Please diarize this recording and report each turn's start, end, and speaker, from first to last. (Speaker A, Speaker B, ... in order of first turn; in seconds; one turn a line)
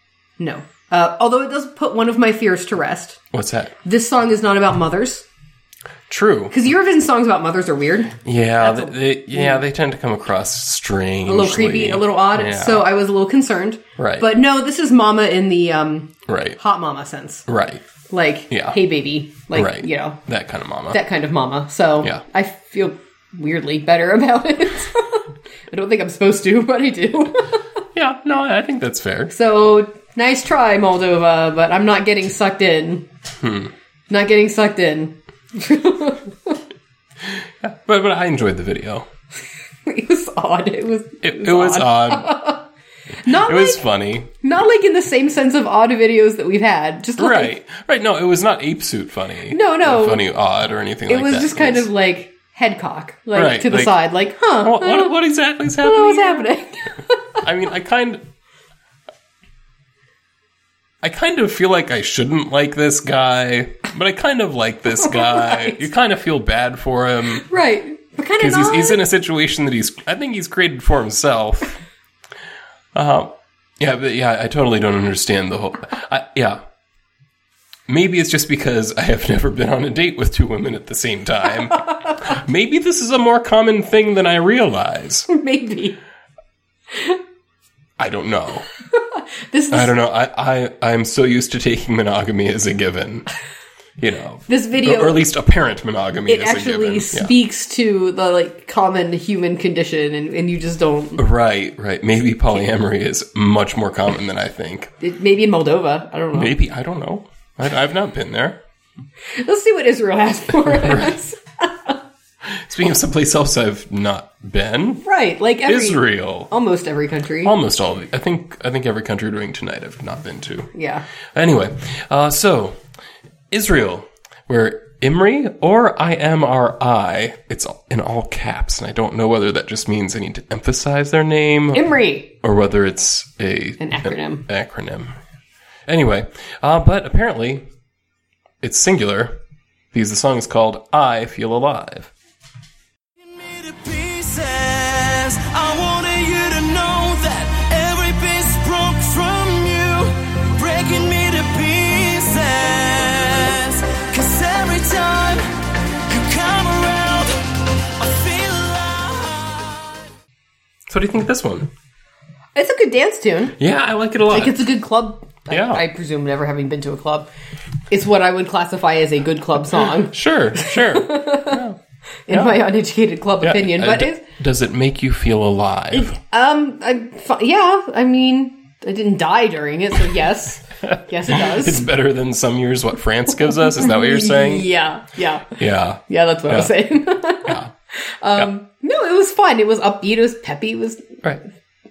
Speaker A: 0.4-3.2
Speaker B: 3.3-3.7
Speaker A: 3.8-5.2
Speaker B: 6.1-6.5
Speaker A: 6.5-9.6
Speaker B: 8.2-12.9
Speaker A: 11.3-17.5
Speaker B: 14.0-14.3
Speaker B: 16.3-16.6
Speaker B: 17.5-17.8
Speaker A: 18.1-20.2
Speaker B: 18.5-18.8
Speaker B: 19.5-21.0
Speaker A: 20.9-27.6
Speaker B: 27.9-29.3
Speaker A: 29.3-33.1
Speaker B: 33.4-33.7
Speaker A: 34.1-36.6
Speaker B: 37.4-39.1
Speaker A: 39.9-42.7
Speaker B: 41.2-42.3
Speaker A: 43.2-43.9
Speaker B: 43.3-44.3
Speaker A: 44.4-47.5
Speaker B: 47.2-51.9
Speaker A: 49.5-50.2
Speaker A: 51.1-55.2
Speaker B: 53.3-54.0
Speaker B: 54.6-56.5
Speaker A: 55.8-57.4
Speaker B: 57.4-58.2
Speaker B: 61.0-67.5
Speaker A: 65.0-65.8
Speaker A: 67.4-69.0
Speaker B: 68.4-71.8
Speaker B: 72.9-76.6
Speaker B: 77.9-85.3
Speaker A: 81.9-82.1
Speaker A: 85.3-86.0
Speaker A: 86.9-87.2
Speaker B: 88.0-88.7
Speaker A: 88.9-89.9
Speaker B: 89.7-93.3
Speaker B: 94.0-97.3
Speaker A: 94.5-95.3
Speaker A: 96.3-101.2
Speaker B: 101.2-104.9
Speaker A: 105.0-106.5
Speaker B: 106.3-108.6
Speaker A: 109.3-112.0
Speaker B: 110.7-111.2
Speaker B: 112.4-115.0
Speaker A: 115.0-117.5
Speaker B: 115.7-116.5
Speaker B: 117.4-120.7
Speaker A: 120.8-121.1
Speaker B: 121.3-122.8
Speaker B: 123.5-131.9
Speaker A: 131.7-132.3
Speaker B: 132.4-135.2
Speaker A: 133.8-134.4
Speaker B: 135.9-137.7
Speaker B: 138.6-139.4
Speaker B: 139.9-142.1
Speaker C: 143.2-160.0
Speaker B: 160.9-161.7
Speaker A: 162.6-163.6
Speaker B: 163.6-164.7
Speaker A: 164.3-167.3
Speaker B: 165.5-165.8
Speaker A: 167.9-171.6
Speaker B: 170.0-171.8
Speaker A: 172.3-174.2
Speaker B: 172.3-172.6
Speaker B: 173.4-176.2
Speaker A: 175.9-181.9
Speaker B: 181.3-184.7
Speaker A: 183.7-191.2
Speaker B: 185.6-186.7
Speaker B: 187.4-187.7